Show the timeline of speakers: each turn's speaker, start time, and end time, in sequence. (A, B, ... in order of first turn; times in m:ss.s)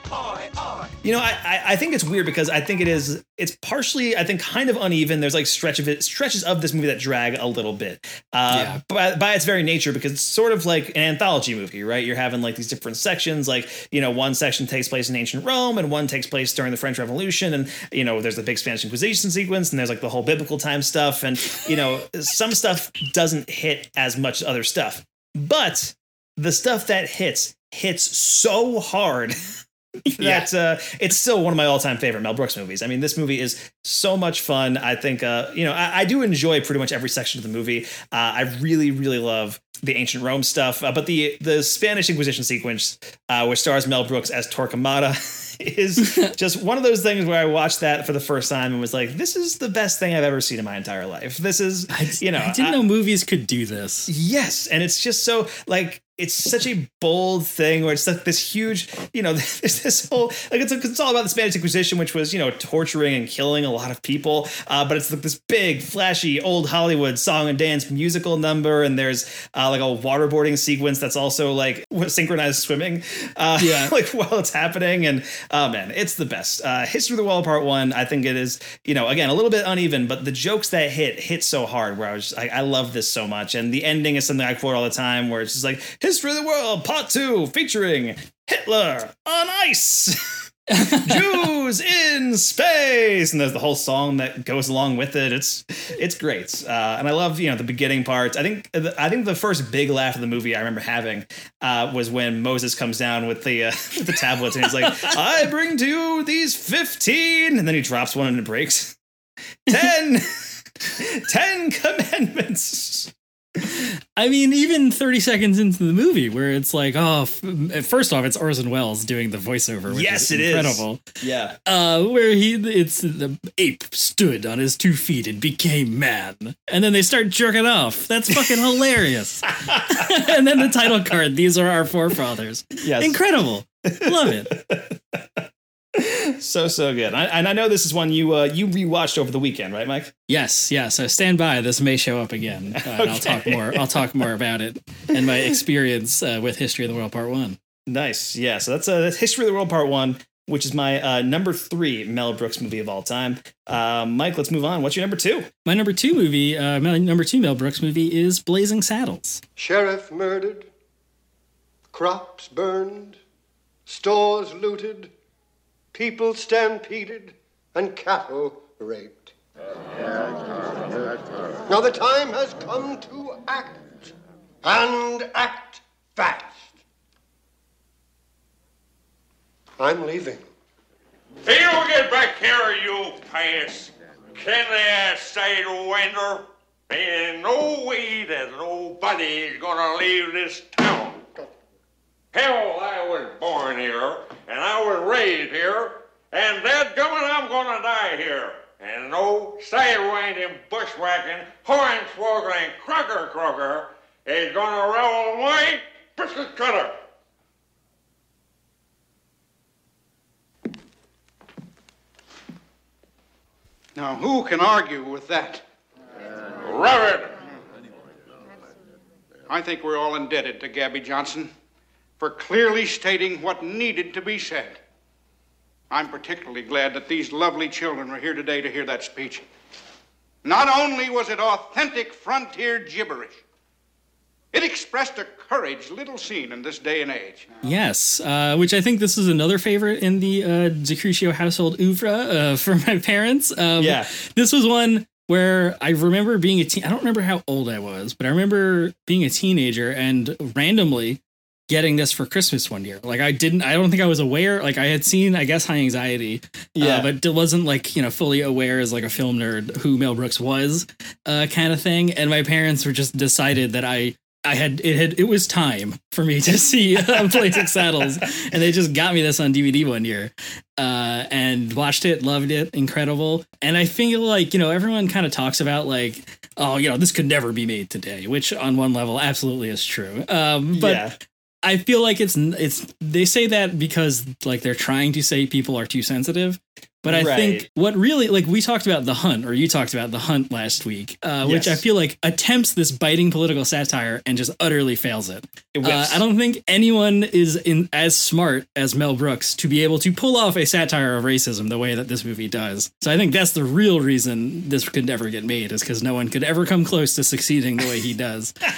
0:01.0-0:29.3 A
0:08.5-0:08.8 B
0:30.1-0:30.5 B
0:30.2-0:52.8 A
0:51.9-0:54.1 B
0:54.1-1:30.2 A
1:13.6-1:13.9 B
1:30.7-1:31.4 B
1:31.0-1:49.0 A
1:44.6-1:45.1 B
1:49.7-1:50.3 A
1:50.8-1:53.9 A
1:54.2-2:01.0 B
1:59.9-2:01.6 A
2:01.7-2:14.5 B
2:09.7-2:10.0 A
2:12.8-2:13.2 A
2:13.9-2:15.4 A
2:15.9-2:20.1 A
2:20.3-2:27.6 B
2:22.8-2:23.8 A
2:27.9-2:35.5 A
2:35.6-2:39.4 B
2:39.6-2:40.7 C
2:41.9-2:43.2 C
2:43.9-2:45.1 C
2:45.9-2:49.3 C
2:51.7-2:54.1 C
2:54.6-2:56.7 C
2:59.8-3:00.5 C
3:01.4-3:11.2 D
3:12.3-3:27.0 D
3:34.0-3:35.6 E
3:36.6-3:37.4 D
3:39.5-3:41.5 E
3:42.2-3:44.8 E
3:45.9-3:49.4 E
3:50.4-3:53.4 E
3:54.5-3:57.5 E
3:57.6-4:41.1 B
4:03.8-4:04.1 A
4:16.8-4:17.1 A
4:27.1-4:28.2 A
4:40.7-4:41.1 A
4:41.6-5:08.5 B
4:47.0-4:47.7 A
4:51.4-4:51.8 A
4:55.7-4:56.2 A